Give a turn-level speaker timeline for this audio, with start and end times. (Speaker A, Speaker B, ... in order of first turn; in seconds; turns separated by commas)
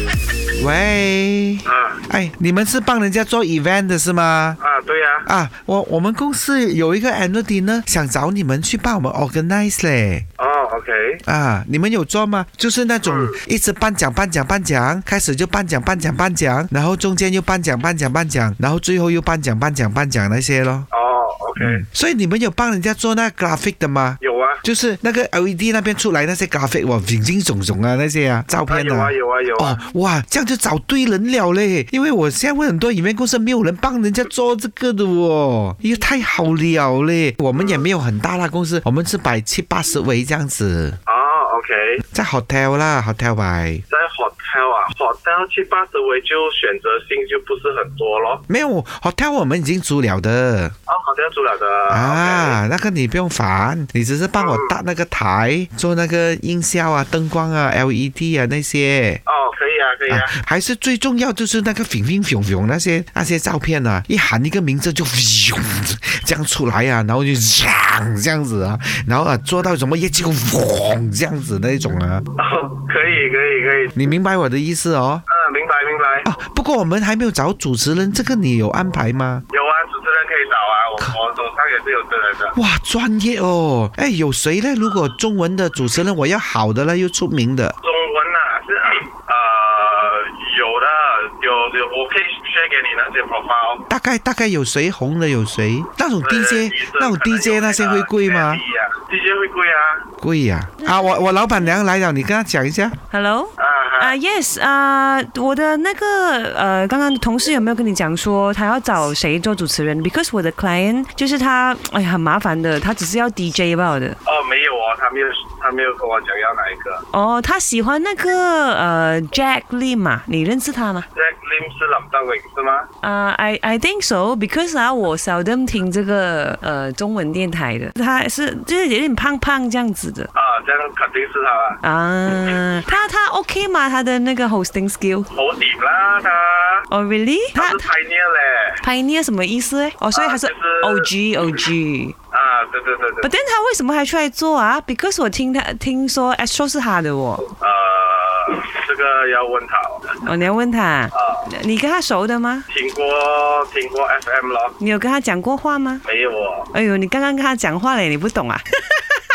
Speaker A: 0.6-4.6, Speaker B: 1.7-2.0, Speaker B: 4.6-5.3, Speaker A: 5.2-10.2, Speaker B: 10.4-11.2, Speaker A: 11.3-20.9, Speaker B: 13.0-13.4, Speaker B: 20.9-21.8, Speaker A: 21.6-41.0, Speaker B: 24.2-24.6, Speaker B: 28.7-29.8, Speaker B: 37.6-37.9, Speaker B: 41.1-42.0, Speaker A: 42.1-43.8, Speaker B: 43.9-48.4, Speaker A: 48.5-50.7, Speaker B: 50.9-52.6, Speaker A: 51.9-59.2, Speaker B: 54.4-54.7, Speaker B: 59.3-60.3, Speaker A: 60.1-72.2, Speaker B: 72.4-74.0, Speaker A: 74.0-75.2, Speaker B: 75.3-76.3, Speaker A: 76.2-79.4, Speaker B: 79.5-82.5, Speaker A: 82.5-87.8, Speaker B: 87.8-93.8, Speaker A: 93.9-98.6, Speaker B: 96.2-100.0, Speaker A: 100.2-103.0, Speaker C: 100.8-101.7, Speaker C: 103.1-114.2, Speaker B: 103.6-104.2, Speaker B: 114.3-117.0, Speaker C: 117.1-121.1, Speaker B: 121.1-122.9, Speaker C: 123.0-130.3, Speaker B: 130.3-131.8, Speaker C: 131.8-135.3, Speaker B: 135.3-136.9, Speaker C: 136.9-137.9, Speaker B: 137.6-138.8, Speaker C: 138.8-142.2, Speaker B: 140.1-141.1, Speaker B: 142.3-143.3, Speaker C: 143.2-147.5, Speaker B: 147.6-150.2, Speaker C: 150.2-152.7, Speaker B: 151.1-151.5, Speaker B: 152.7-154.8, Speaker C: 154.8-156.0, Speaker B: 156.1-156.7, Speaker C: 156.7-159.2